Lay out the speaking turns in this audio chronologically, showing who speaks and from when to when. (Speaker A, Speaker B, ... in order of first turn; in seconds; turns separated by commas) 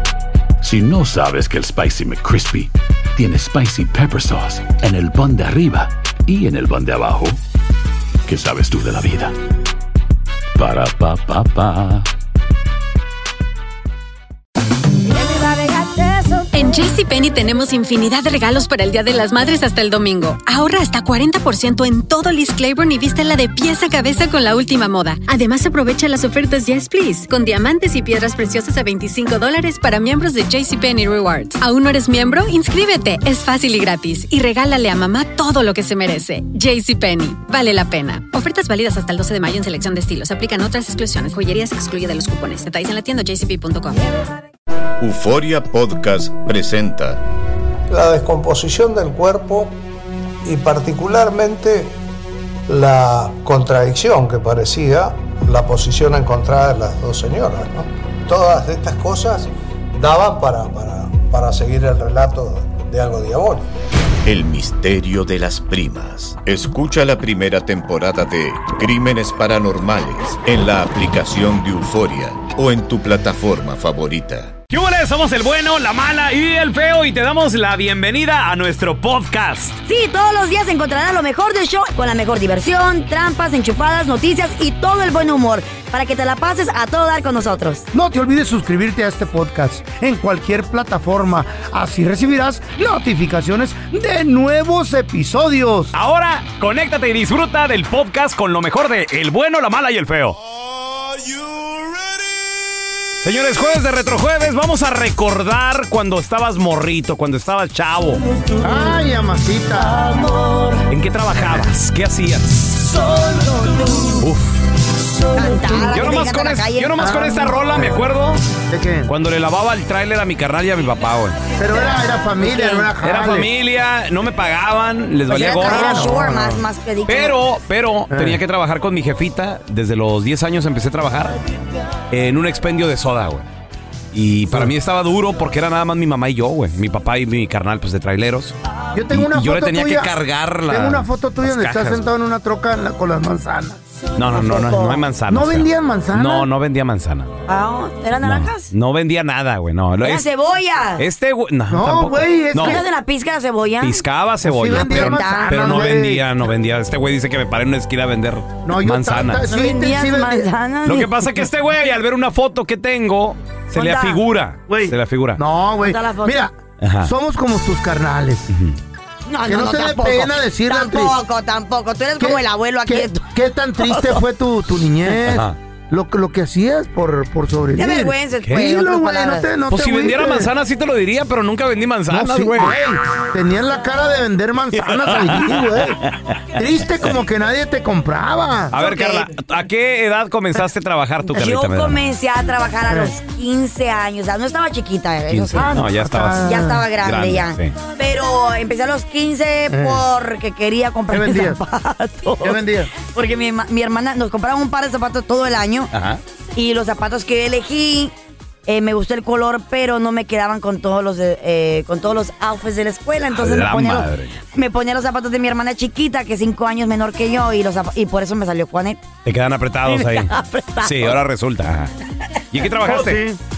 Speaker A: 0.6-7.4, Speaker A: 8.2-9.3, Speaker A: 10.5-12.1, Speaker B: 15.0-16.5, Speaker C: 16.5-44.0, Speaker D: 45.0-47.2, Speaker E: 47.9-49.8, Speaker E: 50.4-52.0, Speaker E: 52.7-63.7, Speaker D: 64.2-74.5, Speaker F: 74.7-79.8, Speaker B: 79.8-87.9, Speaker G: 87.9-95.9, Speaker F: 95.9-100.4, Speaker F: 103.2-108.2, Speaker G: 108.6-110.5, Speaker F: 110.9-113.0, Speaker G: 111.4-111.7, Speaker F: 114.2-114.6, Speaker B: 115.3-117.3, Speaker F: 115.9-118.4, Speaker G: 117.0-118.1, Speaker G: 118.7-119.1, Speaker F: 119.1-121.4, Speaker G: 121.6-123.5, Speaker B: 122.4-122.9, Speaker F: 123.0-126.0, Speaker B: 125.3-127.3, Speaker G: 125.3-126.6, Speaker F: 127.1-131.4, Speaker G: 128.1-128.4, Speaker F: 132.1-133.4, Speaker F: 134.1-138.5, Speaker G: 134.5-134.7, Speaker G: 138.9-140.1, Speaker F: 139.1-142.0, Speaker G: 140.7-143.8, Speaker F: 144.2-147.3, Speaker B: 144.3-145.0, Speaker G: 145.3-146.5, Speaker B: 147.5-148.7, Speaker F: 148.2-150.2, Speaker B: 150.0-151.0, Speaker F: 151.0-152.8, Speaker G: 151.7-152.8, Speaker B: 152.6-154.0, Speaker F: 153.8-159.4, Speaker G: 154.4-156.3, Speaker B: 154.7-155.7, Speaker G: 158.6-160.5, Speaker B: 159.5-161.1, Speaker F: 160.8-165.4, Speaker B: 163.7-164.2, Speaker G: 164.7-168.5, Speaker B: 165.8-166.4, Speaker F: 166.8-167.1, Speaker F: 168.5-168.8, Speaker B: 169.3-173.2, Speaker G: 169.4-171.2, Speaker G: 172.2-180.5, Speaker B: 173.8-174.2, Speaker F: 175.2-175.6, Speaker B: 177.8-179.5, Speaker F: 179.7-182.7, Speaker G: 182.1-186.0, Speaker F: 184.8-186.4, Speaker G: 186.5-188.8, Speaker F: 188.7-192.0, Speaker B: 188.8-189.3, Speaker B: 191.3-195.7, Speaker F: 195.3-197.7, Speaker G: 195.5-196.8, Speaker B: 196.4-205.9, Speaker G: 199.7-200.0, Speaker G: 201.1-201.6, Speaker G: 202.4-202.9, Speaker F: 205.9-206.2, Speaker B: 206.5-208.1, Speaker B: 208.7-219.0, Speaker F: 213.3-214.3, Speaker F: 219.2-220.3, Speaker B: 219.8-221.2, Speaker F: 220.8-221.9, Speaker F: 222.5-223.2, Speaker G: 222.8-223.4